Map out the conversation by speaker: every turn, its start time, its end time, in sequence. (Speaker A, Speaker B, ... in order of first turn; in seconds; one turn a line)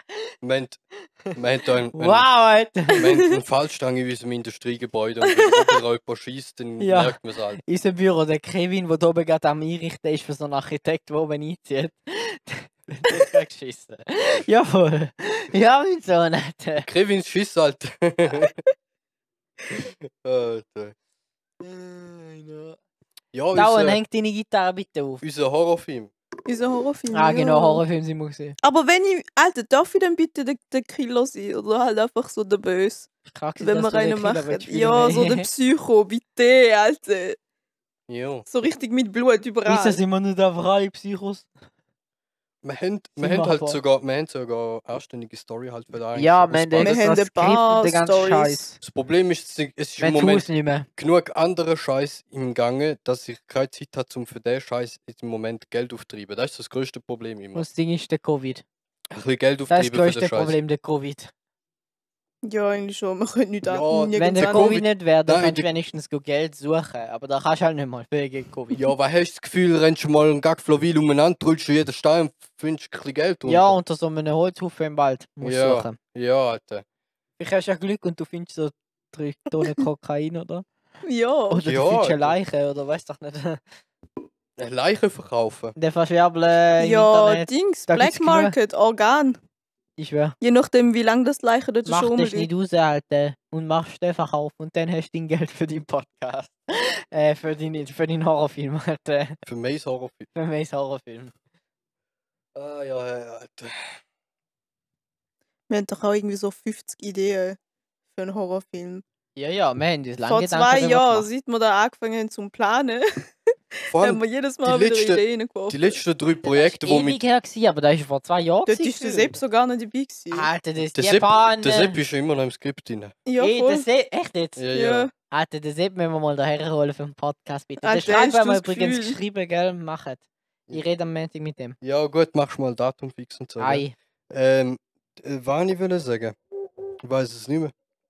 Speaker A: 0.4-0.8
Speaker A: 1.3-2.3
Speaker B: 1.9-3.2
Speaker A: 2.9-7.6
Speaker B: 6.8-16.9
Speaker A: 16.8-18.6
Speaker A: 19.7-20.9
Speaker B: 21.6-22.8
Speaker A: 23.3-24.0
Speaker B: 23.5-25.2
Speaker A: 25.2-26.1
Speaker C: 26.4-27.8
Speaker B: 27.1-28.6
Speaker C: 28.6-33.1
Speaker B: 33.3-35.5
Speaker C: 33.6-37.4
Speaker A: 38.1-38.5
Speaker C: 38.5-40.0
Speaker B: 39.6-41.5
Speaker A: 42.6-47.0
Speaker B: 43.2-43.8
Speaker B: 46.1-48.8
Speaker C: 46.8-48.6
Speaker A: 48.8-57.6
Speaker B: 50.0-50.9
Speaker B: 57.5-58.6
Speaker A: 59.1-60.5
Speaker B: 59.7-61.3
Speaker C: 62.4-64.8
Speaker A: 63.7-65.7
Speaker B: 64.1-68.9
Speaker A: 68.7-73.8
Speaker B: 73.5-76.0
Speaker A: 75.4-76.8
Speaker B: 77.4-80.6
Speaker C: 81.0-81.6
Speaker B: 81.5-83.6
Speaker A: 81.6-82.3
Speaker A: 84.6-85.8
Speaker B: 85.8-88.5
Speaker C: 86.8-89.4
Speaker B: 90.0-90.3
Speaker C: 90.4-92.5
Speaker B: 91.8-99.4
Speaker A: 99.5-100.3
Speaker B: 100.3-101.3
Speaker A: 102.5-104.0
Speaker C: 105.7-107.6
Speaker C: 108.1-109.0
Speaker B: 109.3-111.3
Speaker C: 110.2-113.0
Speaker C: 113.7-116.0
Speaker A: 113.9-117.2
Speaker B: 116.4-119.3
Speaker C: 118.7-120.5
Speaker B: 120.3-122.0
Speaker A: 120.9-123.2
Speaker C: 123.2-123.8
Speaker B: 123.4-124.6
Speaker A: 124.6-125.1
Speaker C: 124.7-125.1
Speaker B: 125.2-131.8
Speaker C: 127.8-129.2
Speaker A: 131.8-136.3
Speaker B: 133.6-133.9
Speaker A: 137.0-137.7